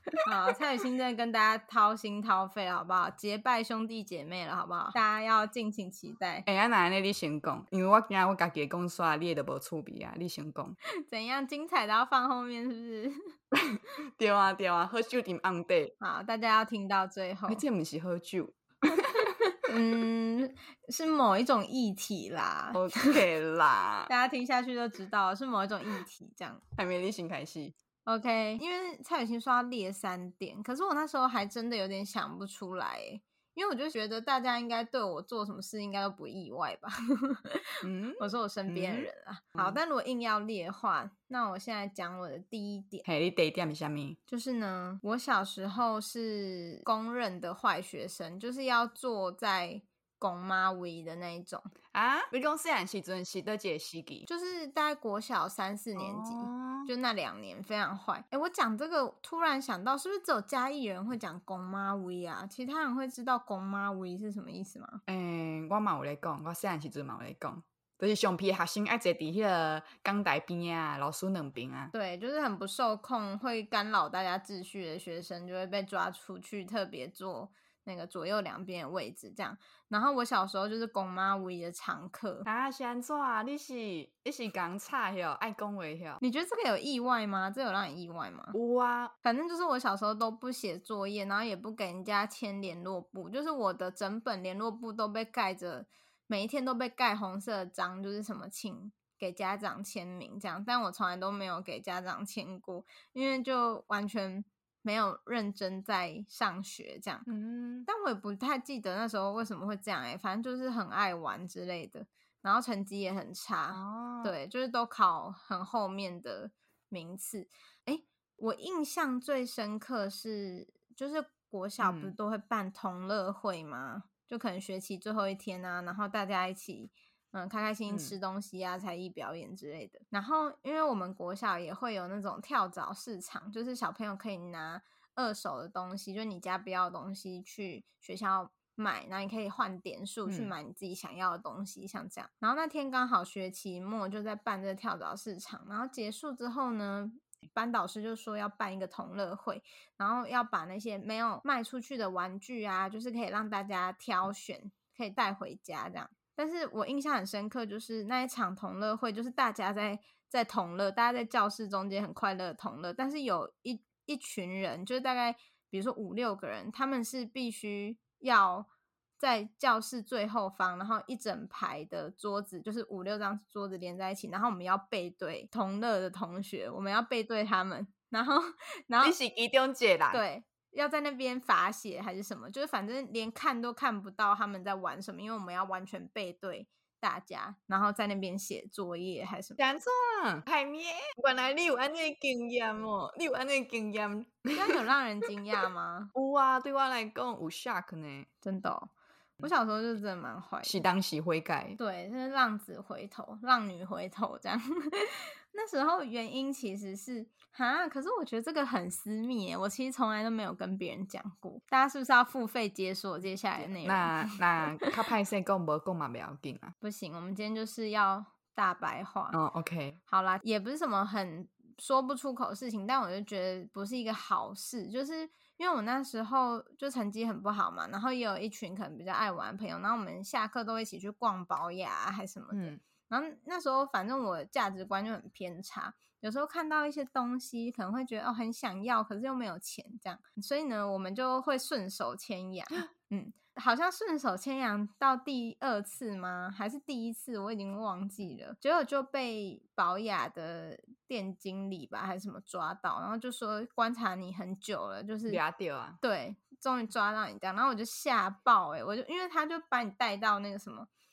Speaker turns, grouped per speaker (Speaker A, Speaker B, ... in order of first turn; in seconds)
Speaker A: 0.2-6.5, 11.1-13.2, 16.0-17.6, 19.5-23.1, 24.1-26.6, 28.1-37.6, 38.2-43.0, 44.3-51.7, 54.2-65.0, 71.9-82.5, 86.2-88.5, 89.2-107.3, 107.9-168.7, 169.2-179.2, 180.1-189.6, 194.5-196.1, 198.4-200.8, 201.8-214.4, 216.8-219.4, 220.1-255.4, 256.0-260.9
Speaker B: 6.5-10.8, 13.5-15.9, 17.5-19.1, 22.7-24.1, 26.8-27.7, 37.8-39.8, 43.0-44.2, 51.9-54.2, 56.0-56.9, 65.1-71.9, 82.4-86.2, 88.5-89.1, 107.3-107.9, 113.7-114.3, 121.8-122.1, 127.9-128.2, 140.2-140.5, 179.0-180.2, 189.6-194.8, 196.1-198.3, 200.6-201.8, 213.6-216.7, 219.3-220.0, 232.5-232.8, 255.3-256.0